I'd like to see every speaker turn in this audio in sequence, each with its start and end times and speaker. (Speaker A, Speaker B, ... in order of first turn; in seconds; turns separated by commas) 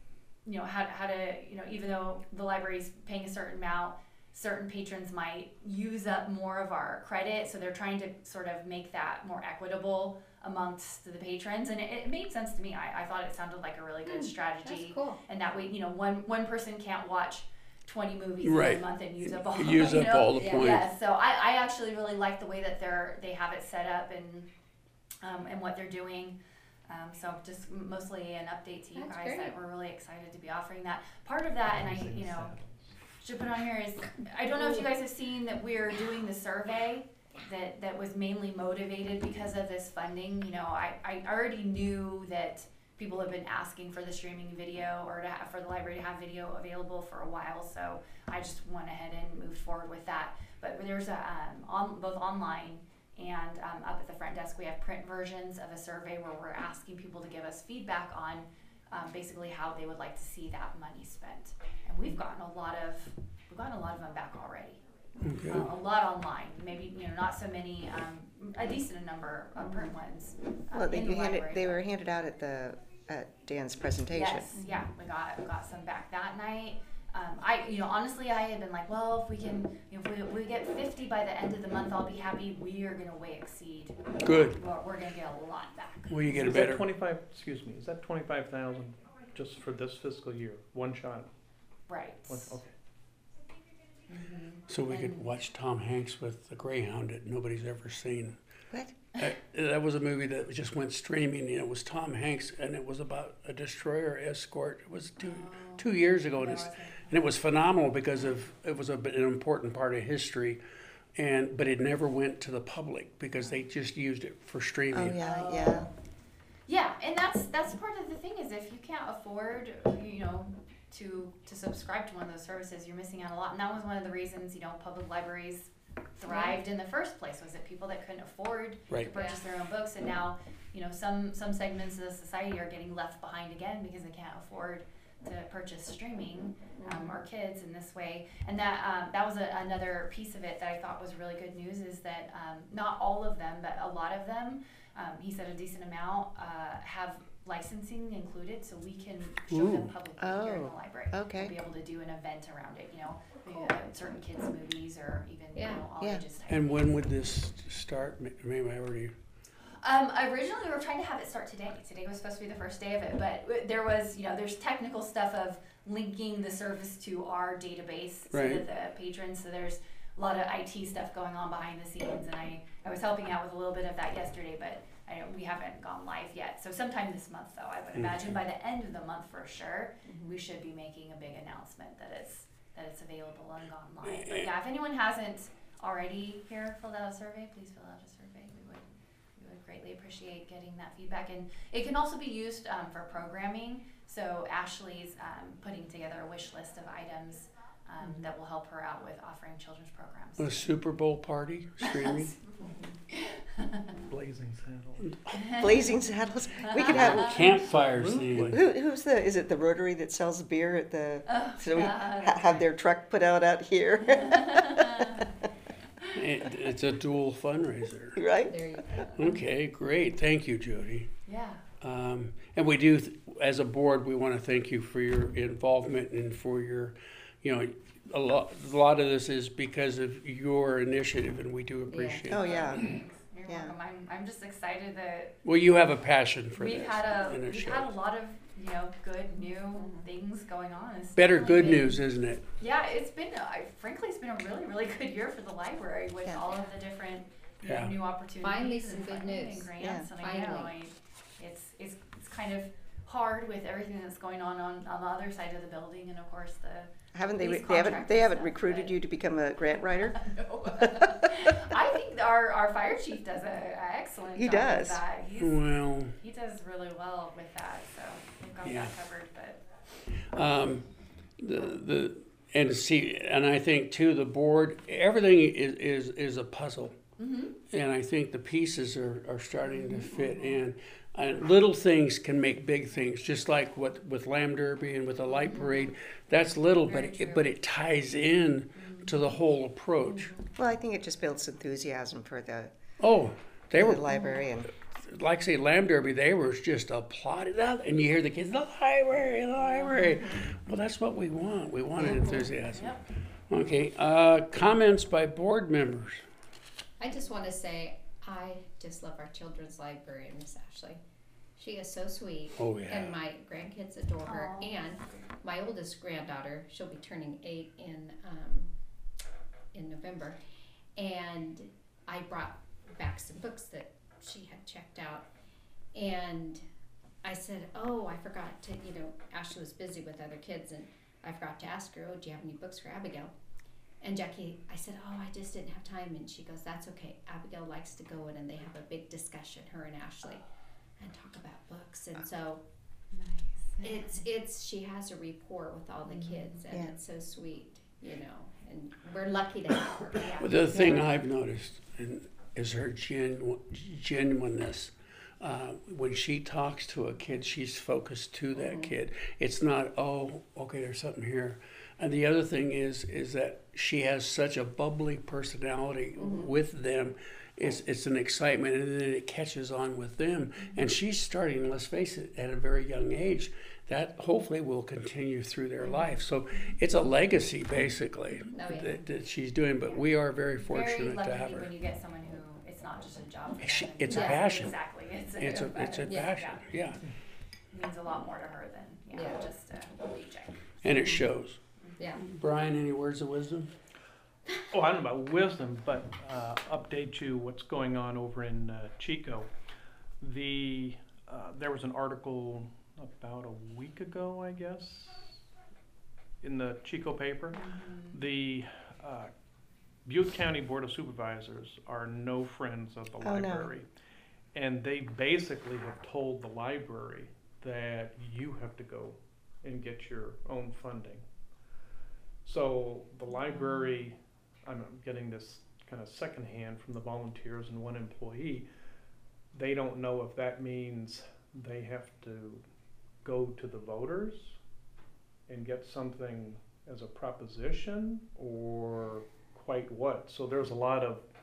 Speaker A: 0.5-24.5, Speaker B: 14.1-15.2, Speaker C: 18.4-20.9, Speaker B: 20.4-20.8, Speaker A: 25.2-26.4, Speaker A: 26.9-32.5, Speaker B: 29.0-29.5, Speaker D: 31.7-32.8, Speaker A: 33.2-64.8, Speaker C: 65.2-65.7, Speaker A: 65.5-71.8, Speaker B: 69.6-69.9, Speaker E: 70.7-74.5, Speaker A: 74.1-86.2, Speaker C: 84.2-84.6, Speaker C: 86.1-86.8, Speaker D: 86.3-91.3, Speaker A: 91.9-92.6, Speaker D: 92.3-92.7, Speaker A: 94.1-95.3, Speaker C: 94.7-98.4, Speaker C: 99.2-110.6, Speaker A: 105.2-107.2, Speaker C: 111.2-115.2, Speaker E: 114.9-115.9, Speaker A: 115.2-115.9, Speaker A: 116.7-157.0, Speaker B: 126.3-126.6, Speaker B: 129.1-129.4, Speaker B: 136.8-137.2, Speaker C: 149.5-149.9, Speaker E: 150.2-151.6, Speaker B: 155.6-155.9, Speaker C: 156.5-159.1, Speaker A: 159.8-200.7, Speaker C: 168.3-168.6, Speaker B: 180.1-180.4, Speaker C: 184.1-184.5, Speaker C: 200.4-202.3, Speaker A: 201.8-202.3, Speaker B: 202.5-203.0, Speaker A: 203.1-204.0, Speaker D: 204.1-205.2, Speaker A: 205.3-205.9, Speaker E: 205.6-207.4, Speaker A: 206.6-207.3, Speaker C: 206.8-208.6, Speaker D: 207.1-208.6, Speaker E: 208.5-215.3, Speaker A: 211.3-212.6, Speaker A: 214.2-215.3, Speaker C: 216.1-218.2, Speaker E: 218.2-219.1, Speaker B: 218.5-219.4, Speaker C: 219.2-221.1, Speaker A: 221.3-221.6, Speaker C: 221.8-232.8, Speaker B: 231.9-232.3, Speaker E: 232.3-232.9, Speaker A: 232.3-235.3, Speaker E: 233.5-233.7, Speaker C: 235.4-237.9, Speaker A: 236.6-242.0, Speaker B: 239.7-240.1, Speaker C: 241.2-242.4, Speaker A: 242.6-259.0, Speaker C: 247.6-247.9, Speaker B: 248.4-250.7, Speaker E: 249.8-250.1, Speaker E: 257.1-261.5, Speaker A: 260.3-269.6, Speaker E: 264.4-265.0, Speaker C: 265.4-266.1, Speaker C: 268.6-268.9, Speaker C: 270.3-270.9, Speaker C: 271.4-276.9, Speaker A: 277.2-277.6, Speaker C: 277.7-290.3, Speaker A: 285.5-285.8, Speaker B: 285.5-285.8, Speaker A: 286.9-287.4, Speaker A: 288.8-289.1, Speaker B: 290.1-290.5, Speaker E: 290.6-292.7, Speaker C: 293.0-294.0, Speaker E: 293.7-294.7, Speaker C: 294.9-302.9, Speaker B: 299.8-300.4, Speaker A: 302.7-303.0, Speaker C: 303.5-306.2, Speaker B: 307.0-311.0, Speaker B: 311.6-318.7, Speaker C: 312.6-313.2, Speaker A: 314.2-315.3, Speaker B: 319.7-320.4, Speaker B: 321.0-325.3, Speaker B: 325.9-326.6, Speaker B: 327.2-333.3, Speaker B: 334.0-340.4, Speaker B: 341.0-342.6, Speaker A: 343.1-344.2, Speaker B: 343.8-350.4, Speaker A: 350.2-350.8, Speaker C: 350.4-381.7, Speaker B: 358.6-358.9, Speaker B: 366.2-366.5, Speaker B: 378.5-379.0, Speaker A: 380.6-386.6, Speaker C: 383.6-384.7, Speaker B: 384.1-384.6, Speaker C: 385.4-387.0, Speaker B: 385.9-386.4, Speaker A: 387.7-390.6, Speaker B: 389.1-389.4, Speaker C: 390.8-391.6, Speaker B: 391.0-391.2, Speaker C: 392.2-393.7, Speaker D: 394.7-399.5, Speaker D: 400.2-405.4, Speaker D: 406.4-407.6, Speaker A: 407.5-408.2, Speaker D: 408.1-409.3, Speaker D: 410.1-413.9, Speaker E: 413.2-413.7, Speaker D: 414.5-421.2, Speaker D: 422.4-428.7, Speaker D: 429.5-432.6, Speaker D: 433.2-434.6, Speaker D: 435.5-441.3